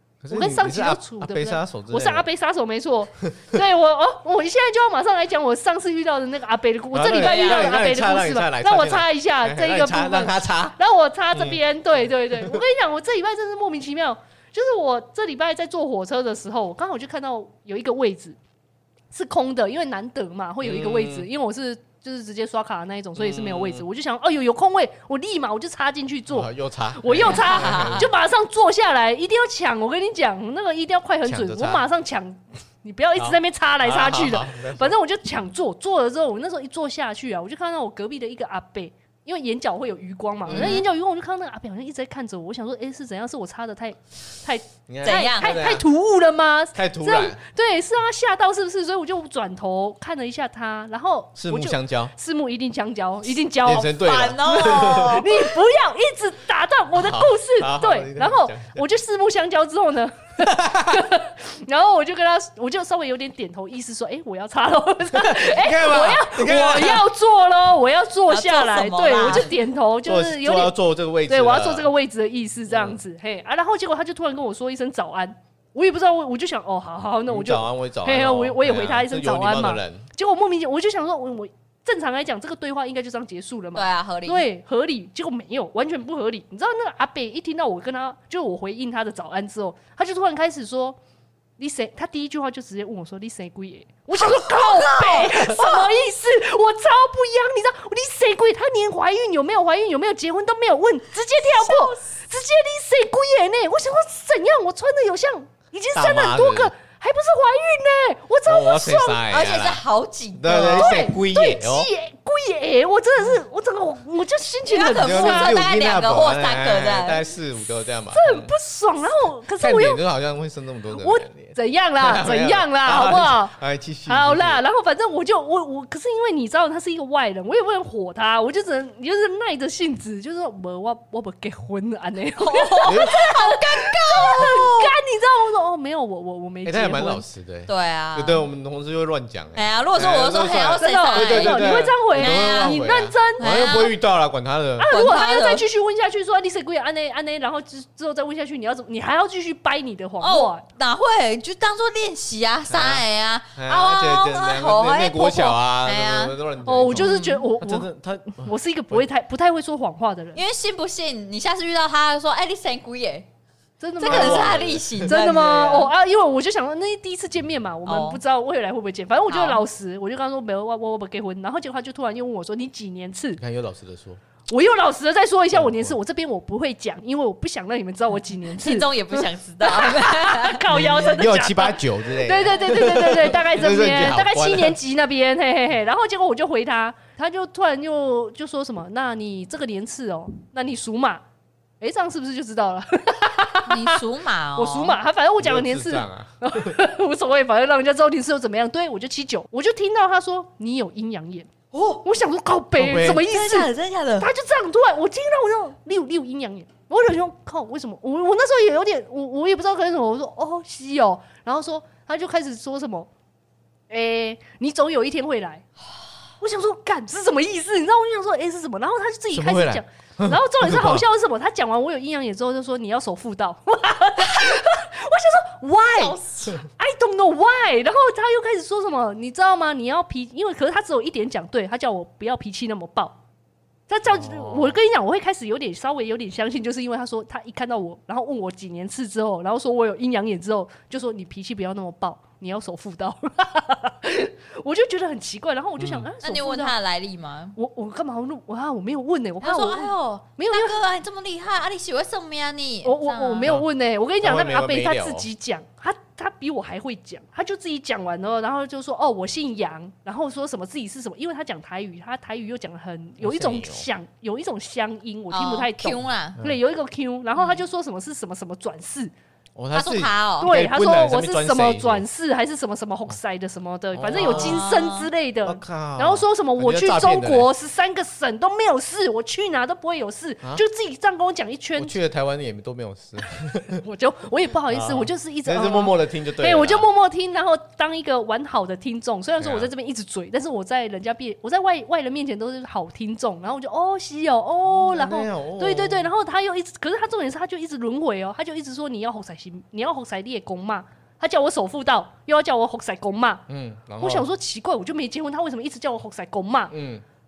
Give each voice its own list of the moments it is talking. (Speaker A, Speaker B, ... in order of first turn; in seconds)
Speaker A: 0.2-2.3, 6.9-10.8, 11.3-11.6, 12.3-12.6, 20.6-21.3, 23.2-23.9, 26.3-28.1, 31.2-31.9, 33.2-35.0, 40.5-40.8, 44.9-45.9, 46.7-47.4, 51.4-52.1, 53.6-55.2, 56.9-58.8, 60.4-61.1, 65.1-67.1, 70.0-71.9, 72.7-73.0, 77.3-80.1, 106.0-106.7, 108.5-109.8, 110.3-111.9, 114.9-118.5, 119.6-124.6, 132.8-133.2, 136.6-144.9, 152.7-153.1, 153.6-159.0, 164.0-165.1, 173.4-174.2, 175.5-176.0, 180.7-184.8, 195.4-196.8, 202.8-203.3, 219.3-221.1, 234.1-234.8, 245.8-246.1, 254.2-255.3, 263.2-263.9, 269.6-272.1, 273.9-274.7, 275.4-277.5, 281.8-283.8, 284.7-286.9, 289.4-289.7, 294.7-296.1, 303.5-304.3, 306.7-307.0
Speaker B: 0.3-18.4, 19.1-53.9, 54.5-70.7, 71.3-91.0, 91.6-109.2, 110.5-115.6, 118.1-120.0, 121.0-137.2, 140.6-143.5, 144.8-150.6, 156.7-160.4, 163.8-173.4, 174.5-191.2, 191.8-194.0, 194.6-201.5, 202.0-213.1, 213.9-215.7, 216.4-233.2, 233.9-246.8, 247.6-250.8, 252.8-269.1, 270.4-282.0, 283.7-303.4, 304.0-306.7
Speaker C: 7.2-7.8, 27.2-28.1, 40.5-40.9, 45.0-45.6, 53.7-55.5, 68.3-69.6, 83.8-84.5, 94.3-95.9, 101.4-102.2, 109.3-111.0, 114.7-117.2, 132.4-134.9, 137.7-138.4, 139.6-142.8, 143.4-143.9, 144.9-145.6, 150.2-156.3, 156.9-157.4, 160.3-163.3, 164.0-165.9, 167.9-168.2, 169.3-169.6, 178.5-180.7, 193.7-195.0, 201.7-202.0, 203.0-204.3, 225.9-226.6, 246.2-247.6, 249.4-253.6, 265.3-266.4, 267.4-267.6, 269.7-270.5, 274.2-275.1